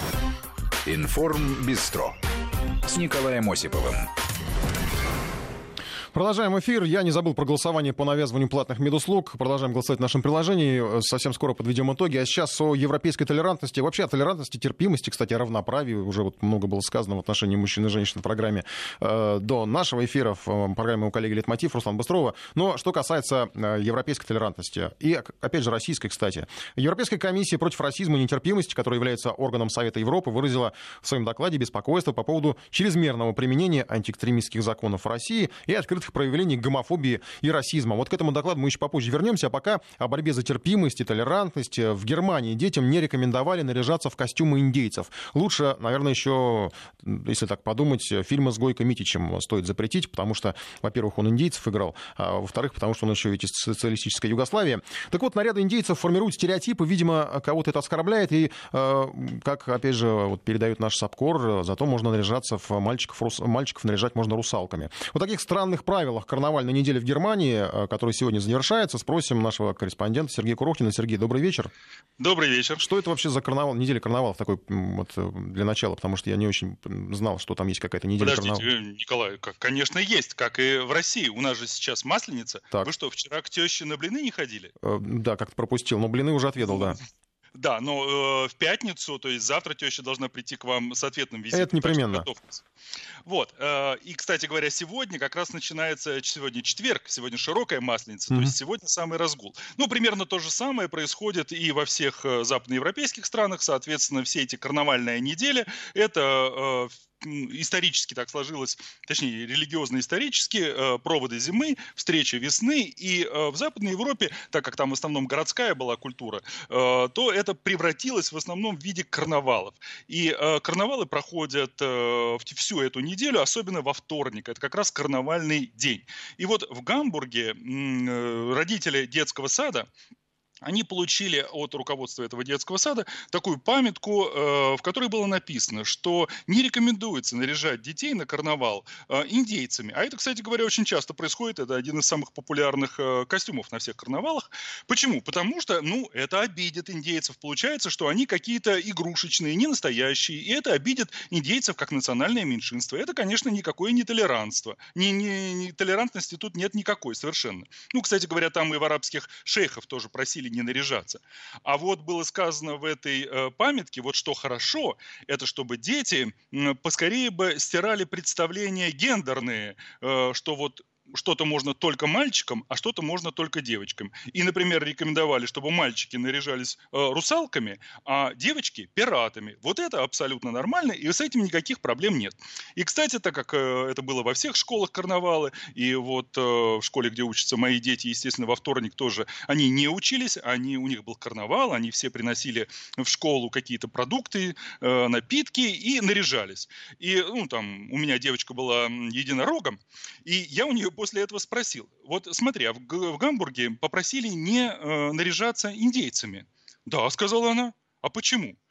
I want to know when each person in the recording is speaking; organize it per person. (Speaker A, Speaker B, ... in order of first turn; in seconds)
Speaker A: 0.8-2.2, 2.9-4.1
Speaker B: 6.1-71.7, 72.8-78.7, 84.8-87.0, 91.5-92.3
Speaker C: 72.2-72.8, 78.2-84.7, 86.7-86.9, 87.6-92.6, 93.2-129.9, 130.6-208.6